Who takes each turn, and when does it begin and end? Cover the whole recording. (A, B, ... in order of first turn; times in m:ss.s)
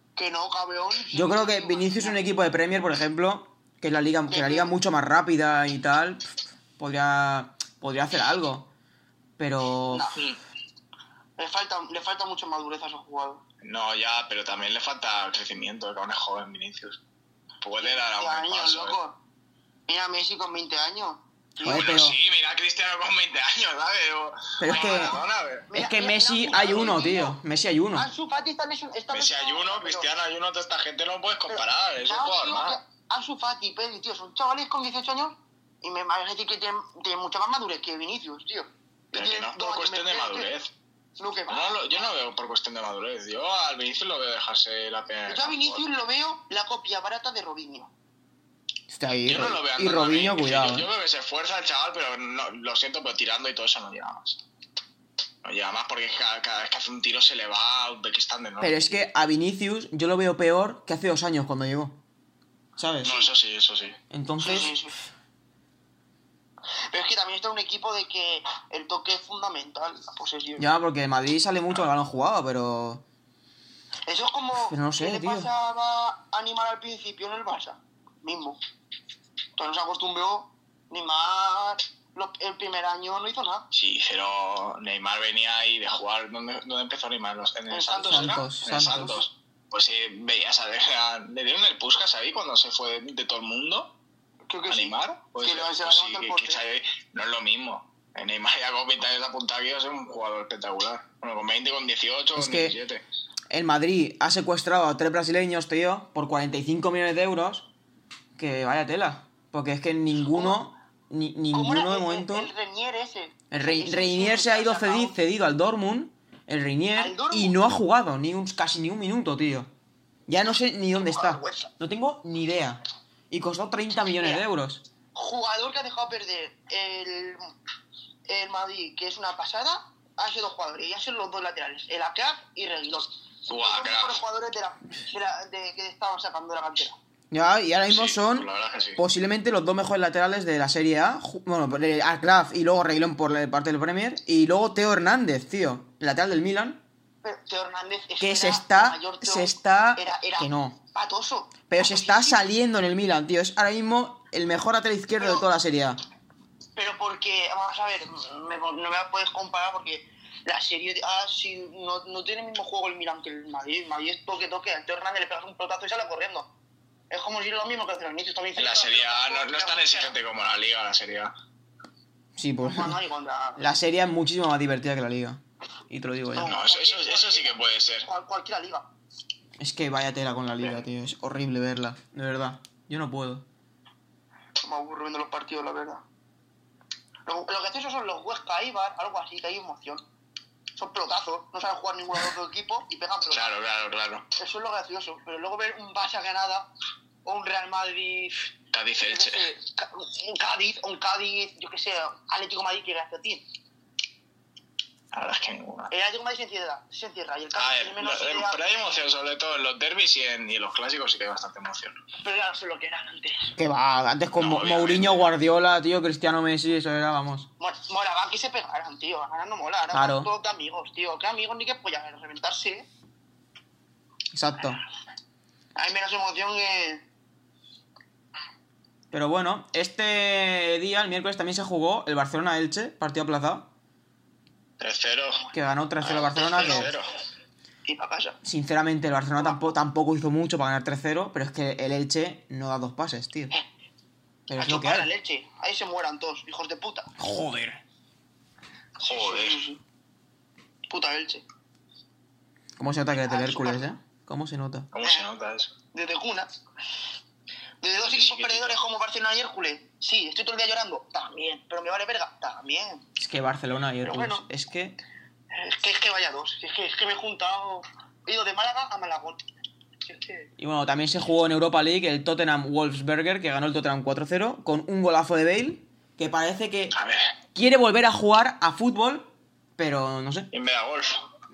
0:00.2-0:02.2 A
0:01.1-0:08.7 B
0:04.3-0:04.7 A
0:09.4-0:10.2 B
0:09.9-0:10.2 A
0:11.4-0:13.4 A
0:13.6-0:17.0 C
0:17.6-0:19.0 C
0:17.8-0:19.2 A
0:19.9-0:21.9 A
0:21.6-0:22.2 B
0:21.6-0:25.7 C
0:24.6-0:25.1 B
0:24.7-0:27.4 A
0:25.7-0:28.1 B
0:28.0-0:30.1 A
0:29.1-0:32.8 C
0:31.5-0:40.5 A
0:39.1-0:40.7 C
0:41.2-0:42.1 A
0:41.5-0:45.9 C
0:45.3-0:47.9 A
0:48.9-0:50.9 B
0:49.3-0:54.4 C
0:55.4-0:58.9 C
0:58.6-1:02.0 B
1:02.8-1:03.2 B
1:03.0-1:04.0 C
1:04.1-1:04.8 B
1:04.4-1:04.9 A
1:06.9-1:10.7 A
1:10.6-1:13.0 B
1:14.1-1:18.6 A
1:14.6-1:15.5 B
1:19.6-1:23.7 A
1:23.7-1:33.9 C
1:27.7-1:28.5 A
1:28.1-1:29.2 B
1:34.5-1:36.6 A
1:34.7-1:43.0 C
1:42.4-1:42.8 B
1:43.5-1:47.7 B
1:48.4-1:52.5 B
1:50.3-1:50.6 A
1:51.5-1:55.2 A
1:53.5-1:59.7 B
1:57.0-1:57.6 A
2:00.3-2:02.8 B
2:01.0-2:01.7 A
2:03.3-2:04.8 B
2:05.2-2:07.5 A
2:08.3-2:17.0 A
2:13.5-2:14.2 C
2:17.3-2:26.8 B
2:17.9-2:19.0 C
2:27.2-2:32.4 A
2:28.2-2:30.8 B
2:31.7-2:36.0 B
2:35.2-2:35.5 A
2:36.8-2:46.5 A
2:47.1-2:50.2 A
2:48.6-2:51.3 C
2:52.4-2:53.0 B
2:52.6-2:53.6 A
2:53.6-2:56.6 B
2:56.3-2:58.9 A
2:56.4-2:58.1 C
2:59.6-3:03.4 B
3:04.6-3:06.0 A
3:07.3-3:10.0 A
3:10.8-3:13.6 A
3:13.3-3:14.3 C
3:14.4-3:16.7 A
3:17.2-3:18.5 A
3:18.7-3:19.5 C
3:19.1-3:23.4 A
3:25.1-3:25.9 C
3:25.9-3:29.0 A
3:27.6-3:32.0 C
3:32.2-3:33.6 A
3:33.6-3:37.5 B
3:34.4-3:35.3 C
3:37.6-3:42.9 A
3:39.9-3:40.3 B
3:44.3-3:44.8 B
3:45.8-3:47.0 A
3:49.1-3:53.7 B
3:54.8-3:55.4 C
3:55.5-3:56.9 B
3:56.0-3:57.1 C
3:56.1-3:57.0 A
3:57.9-3:58.4 A
3:58.4-4:03.5 B
3:59.4-3:59.7 A
4:04.5-4:05.1 B
4:04.6-4:07.1 A
4:07.2-4:07.8 B
4:09.0-4:09.6 C
4:09.0-4:09.8 A
4:10.9-4:11.4 A
4:12.8-4:14.9 B
4:13.1-4:13.9 A
4:14.9-4:15.7 C
4:15.0-4:15.3 A
4:15.9-4:16.5 A
4:17.8-4:23.0 A
4:18.0-4:18.8 C
4:23.2-4:25.0 B
4:24.0-4:24.5 A
4:25.5-4:29.4 A
4:30.0-4:30.5 A
4:30.6-4:37.0 B
4:36.9-4:37.3 C
4:37.6-4:40.5 B
4:40.5-4:41.3 C